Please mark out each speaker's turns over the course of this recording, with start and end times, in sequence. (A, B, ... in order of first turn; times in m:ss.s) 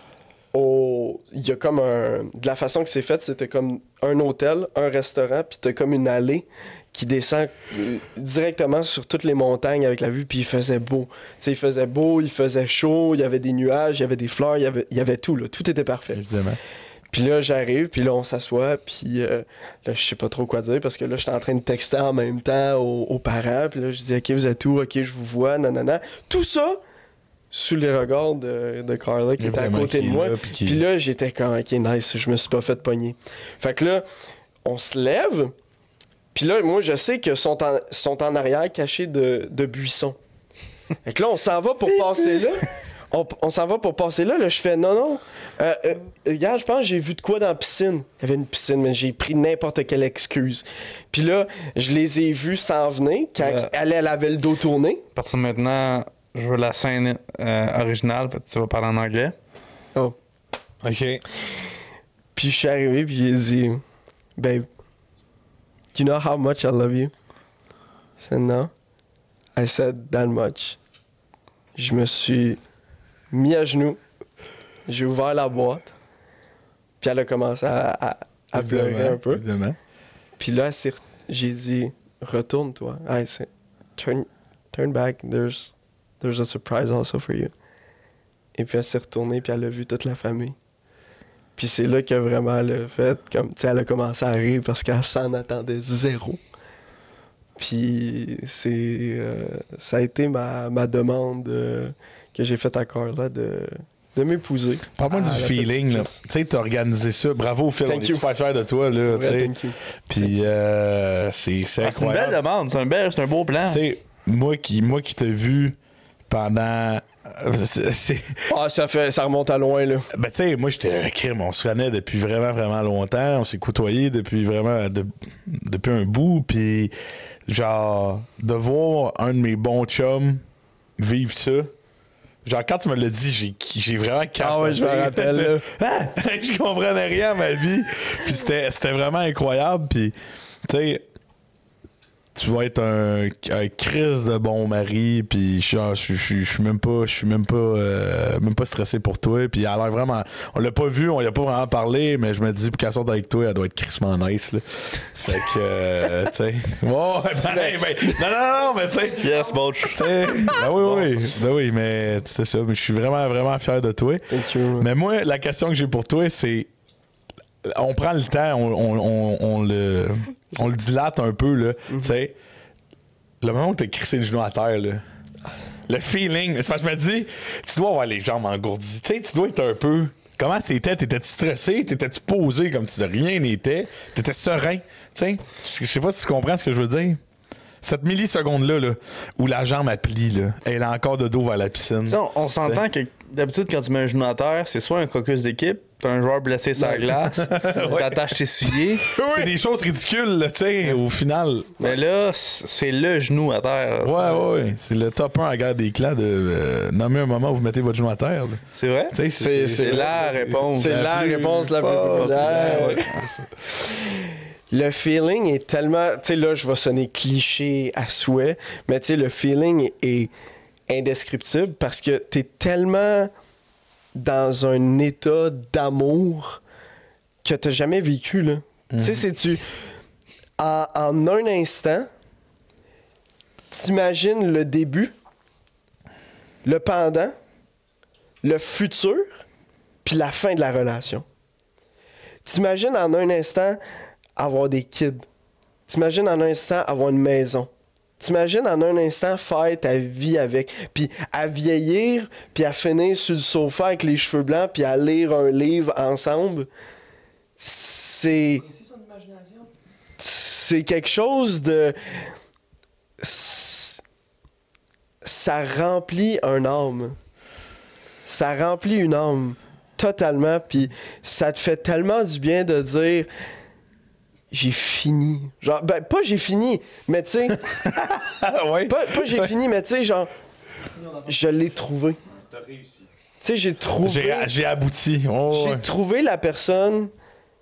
0:00.5-0:16.2 A
0:16.1-0:16.6 B
0:17.1-0:26.8 A
0:27.5-0:34.0 A
0:29.4-0:30.8 B
0:34.6-0:35.5 A
0:36.3-0:40.2 A
0:41.0-0:55.0 A
0:53.4-0:53.7 C
0:55.2-0:59.4 C
1:00.8-1:01.2 B
1:02.4-1:03.8 A
1:04.4-1:04.7 A
1:05.9-1:07.1 A
1:08.2-1:08.7 A
1:09.6-1:10.8 A
1:11.8-1:12.6 A
1:13.3-1:14.0 A
1:14.9-1:15.9 A
1:17.0-1:19.4 A
1:18.5-1:19.8 B
1:20.4-1:27.5 A
1:28.6-1:30.6 A
1:31.6-1:36.4 A
1:37.6-1:46.2 A
1:45.0-1:49.6 B
1:47.9-1:48.3 A
1:49.1-1:49.8 A
1:50.1-1:52.4 B
1:51.8-1:53.8 C
1:53.6-1:55.8 B
1:56.3-1:58.4 B
1:58.5-2:00.1 A
2:00.1-2:06.9 B
2:07.5-2:10.4 B
2:11.0-2:11.7 B
2:12.4-2:21.0 B
2:14.4-2:15.6 A
2:22.3-2:46.7 B
2:37.5-2:37.8 A
2:39.2-2:40.1 C
2:44.3-2:44.9 A
2:47.6-2:52.4 B
2:53.4-2:55.0 B
2:55.9-3:07.2 B
3:07.8-3:12.8 B
3:12.1-3:19.1 C
3:16.8-3:17.1 A
3:17.3-3:18.2 B
3:19.1-3:19.5 A
3:19.2-3:21.7 B
3:21.8-3:24.4 C
3:24.0-3:33.5 B
3:28.8-3:31.2 C
3:29.4-3:33.1 A
3:32.1-3:33.2 C
3:33.8-3:40.3 A
3:40.9-3:43.3 A
3:44.2-3:46.6 A
3:47.4-3:49.6 A
3:48.9-3:49.2 B
3:50.6-3:52.1 A
3:53.7-3:55.1 A
3:56.6-3:57.4 A
3:58.4-3:59.4 A
4:00.0-4:01.2 A
4:02.4-4:03.8 A
4:04.4-4:05.3 A
4:05.9-4:16.7 A
4:17.6-4:18.7 A
4:20.2-4:22.2 A
4:23.2-4:24.0 A
4:25.2-4:27.2 A
4:28.3-4:33.3 A
4:34.5-4:37.6 A
4:37.7-4:39.5 B
4:38.9-4:40.3 A
4:41.2-4:42.2 A
4:43.4-4:44.5 A
4:44.0-4:45.8 B
4:45.5-4:47.1 A